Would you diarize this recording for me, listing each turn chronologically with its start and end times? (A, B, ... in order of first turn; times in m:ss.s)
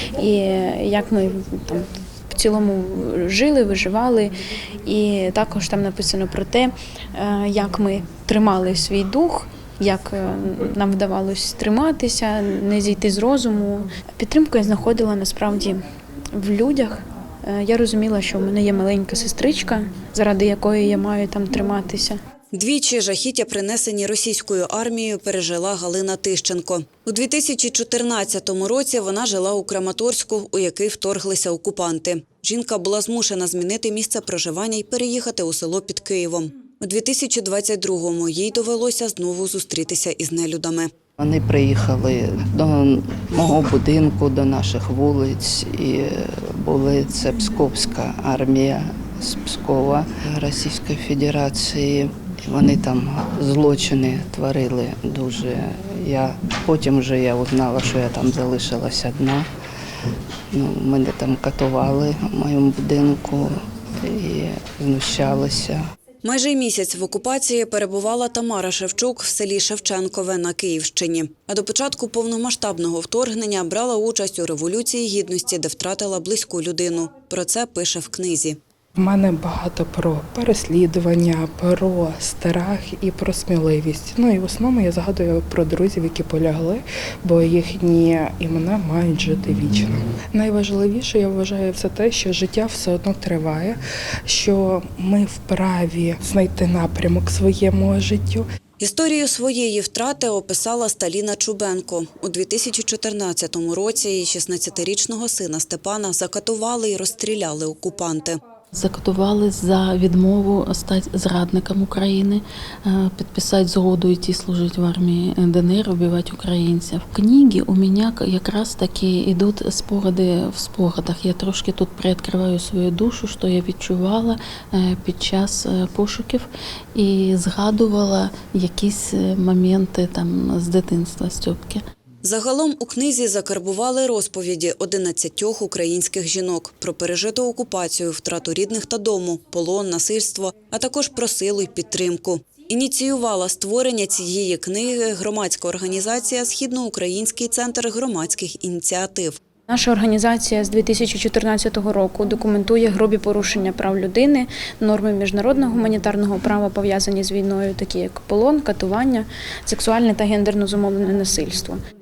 0:00.2-0:04.3 A
0:04.8-0:15.8 A
0:16.3-0:22.2 A
0:22.5-0:40.9 B
0:41.2-0:59.5 C
1:00.5-1:05.8 C
1:06.2-1:18.6 B
1:19.0-1:38.4 D
1:38.8-1:48.4 B
1:48.7-2:11.8 E
2:12.2-2:29.4 B
2:29.7-2:41.8 A